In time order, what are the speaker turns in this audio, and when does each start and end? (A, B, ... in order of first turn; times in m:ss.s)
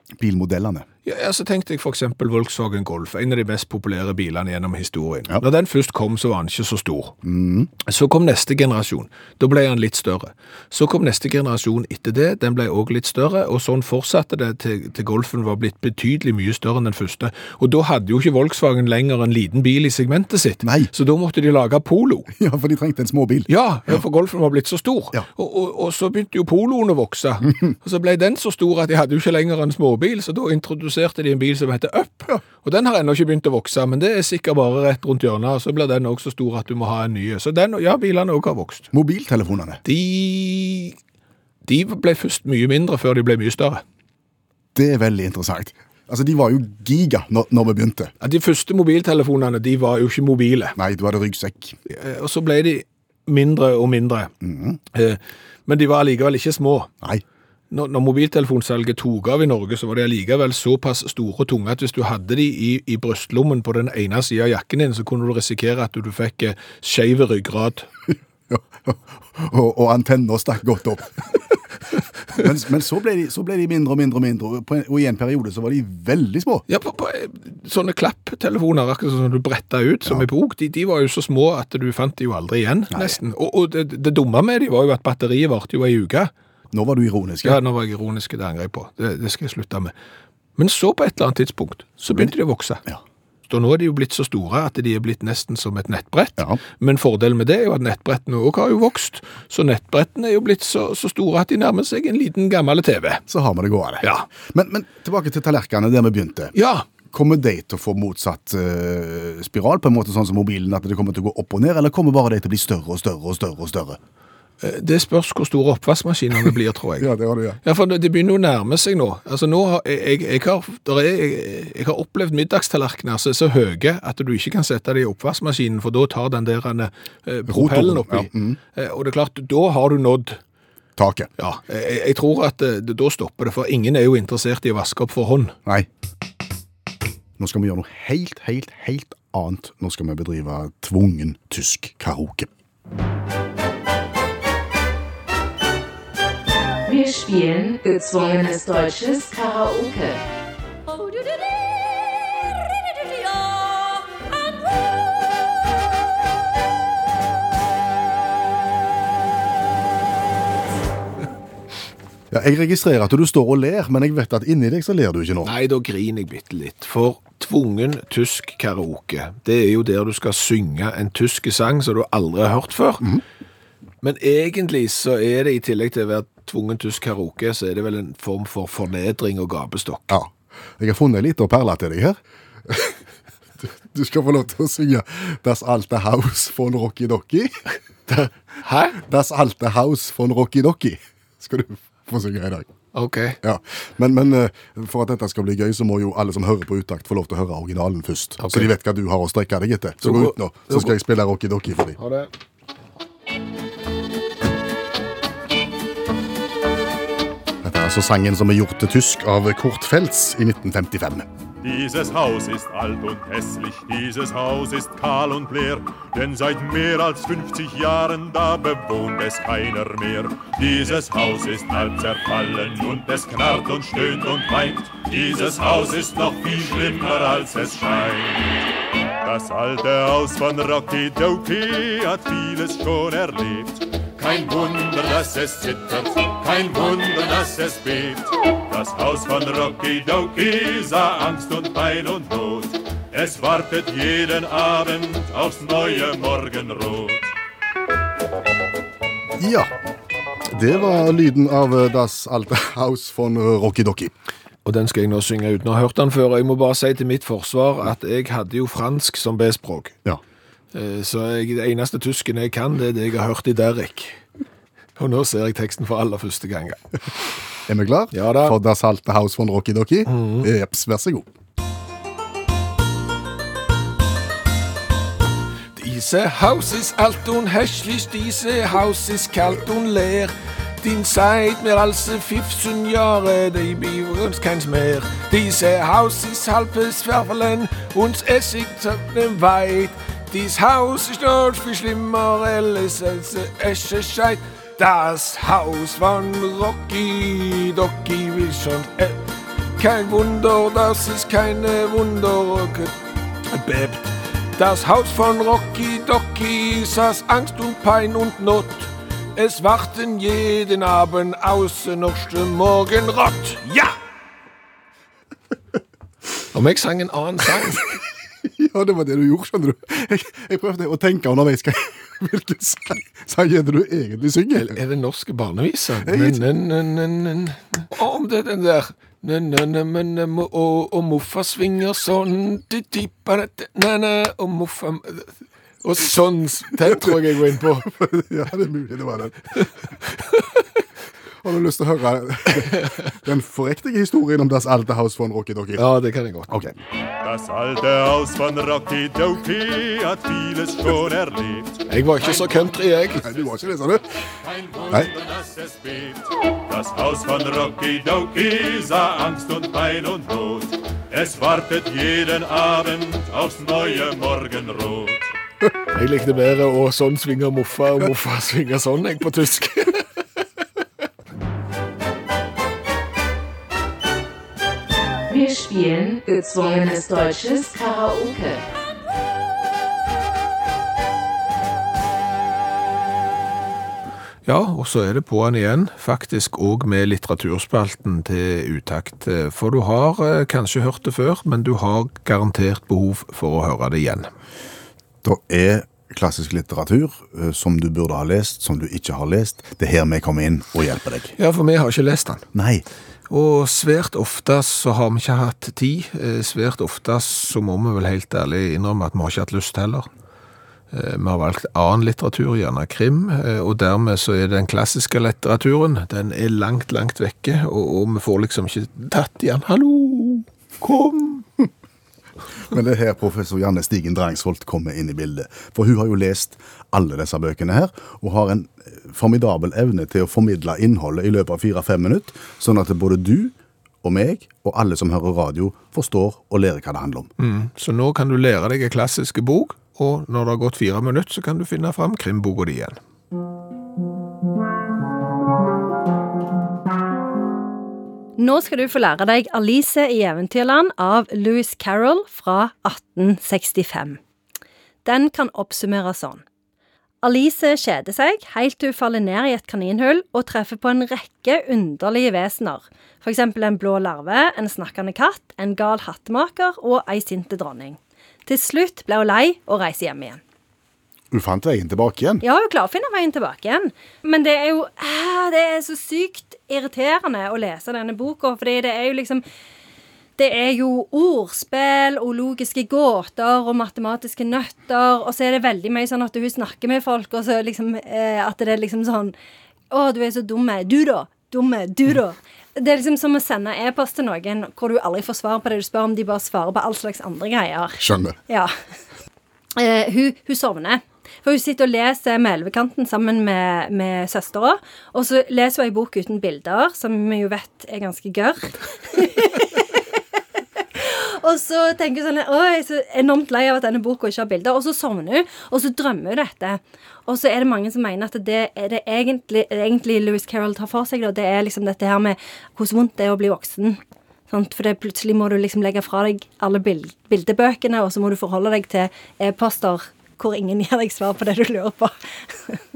0:00.2-0:00.9 A
0:01.0-0:07.2 B
0:07.2-0:07.7 A
0:07.8-0:22.3 B
0:20.6-0:20.9 A
0:22.3-0:23.5 A
0:23.5-0:38.9 B
0:38.9-0:39.8 A
0:39.8-0:41.0 B
0:41.7-0:43.8 B
0:44.8-0:48.1 A
0:48.2-0:50.8 B
0:50.8-0:51.8 A
0:51.9-0:54.3 B
0:54.4-0:54.8 A
0:54.9-0:56.9 B
0:57.7-1:07.9 B
1:08.5-1:11.4 A
1:12.3-1:16.6 A
1:16.7-1:26.3 B
1:22.9-1:23.2 A
1:26.7-1:27.6 A
1:27.4-1:29.9 B
1:30.6-1:32.8 B
1:33.5-1:43.2 B
1:43.3-1:46.6 A
1:46.6-1:46.9 B
1:47.1-1:54.0 A
1:54.6-1:57.1 B
1:57.0-1:57.6 A
1:57.6-2:10.4 B
2:07.5-2:08.6 A
2:11.0-2:11.3 A
2:11.4-2:15.6 B
2:17.4-2:22.5 A
2:26.8-2:30.2 C
2:42.3-2:45.5 A
2:45.4-2:53.2 B
2:54.0-3:00.2 B
3:00.1-3:02.2 A
3:02.7-3:03.0 A
3:03.6-3:07.6 A
3:08.1-3:09.0 B
3:09.0-3:12.7 A
3:12.9-3:13.4 B
3:13.4-3:22.0 A
3:18.4-3:18.7 B
3:20.0-3:20.9 B
3:22.0-3:22.3 B
3:27.6-3:31.3 A
3:31.6-3:48.6 D
3:49.2-4:07.3 D
4:09.4-4:09.7 A
4:10.5-4:14.1 A
4:14.6-4:20.0 B
4:20.7-4:24.2 B
4:25.0-4:27.3 B
4:27.7-4:31.3 A
4:28.1-4:28.6 B
4:30.1-4:30.5 B
4:35.8-4:59.2 B
4:59.8-5:02.9 B
5:03.5-5:14.0 B
5:16.5-5:17.9 B
5:18.4-5:24.8 A
5:24.6-5:35.3 B
5:26.0-5:26.4 A
5:35.8-5:37.9 B
5:36.8-5:37.2 A
5:37.8-5:39.7 A
5:41.4-5:45.8 A
5:45.8-5:46.5 B
5:46.5-5:46.8 A
5:47.2-5:51.8 D
5:51.9-5:53.2 B
5:53.2-5:54.0 A
5:54.4-6:05.3 D
6:05.9-6:10.1 B
6:15.3-6:18.6 C
6:24.5-6:34.3 B
6:35.2-6:41.4 A
6:41.4-6:42.4 B
6:42.5-6:42.8 A
6:43.3-6:50.1 B
6:50.9-7:01.5 B
7:02.7-7:17.3 A
7:17.4-7:23.0 B
7:28.4-7:34.2 E
7:35.0-7:36.4 E
7:37.2-7:50.4 E
7:51.3-7:52.4 A
7:52.4-7:59.4 E
8:00.4-8:09.4 E
8:09.9-8:18.7 E
8:18.0-8:18.4 A
8:19.8-8:30.2 E
8:31.0-8:52.8 E